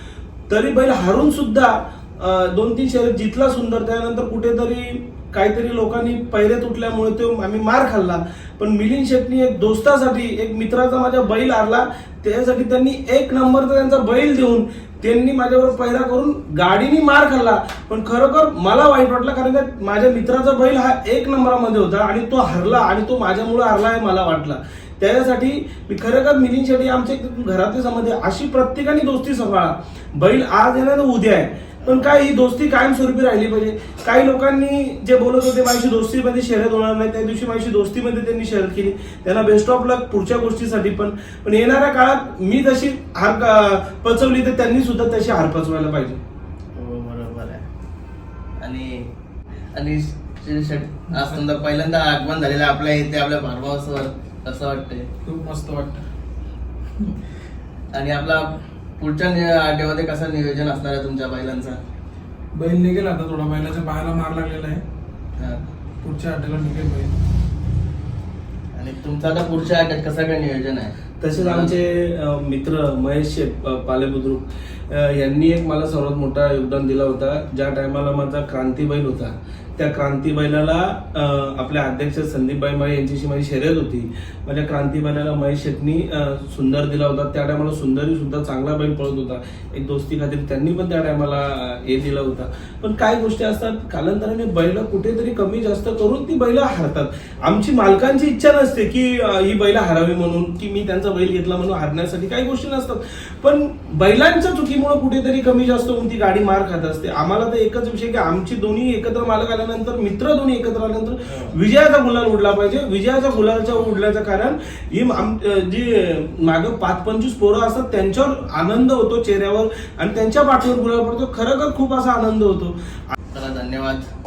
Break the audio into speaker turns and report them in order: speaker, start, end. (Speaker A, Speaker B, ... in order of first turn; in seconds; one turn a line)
Speaker A: 0.5-46.2
Speaker B: 31.8-32.1
Speaker B: 46.8-47.6
Speaker B: 48.6-49.1
Speaker B: 49.7-55.1
Speaker C: 55.2-56.0
Speaker B: 57.9-61.8
Speaker C: 62.5-64.8
Speaker B: 65.4-65.6
Speaker C: 66.0-67.1
Speaker B: 68.8-71.8
Speaker A: 71.2-122.7
Speaker B: 111.3-111.6
Speaker B: 123.3-124.1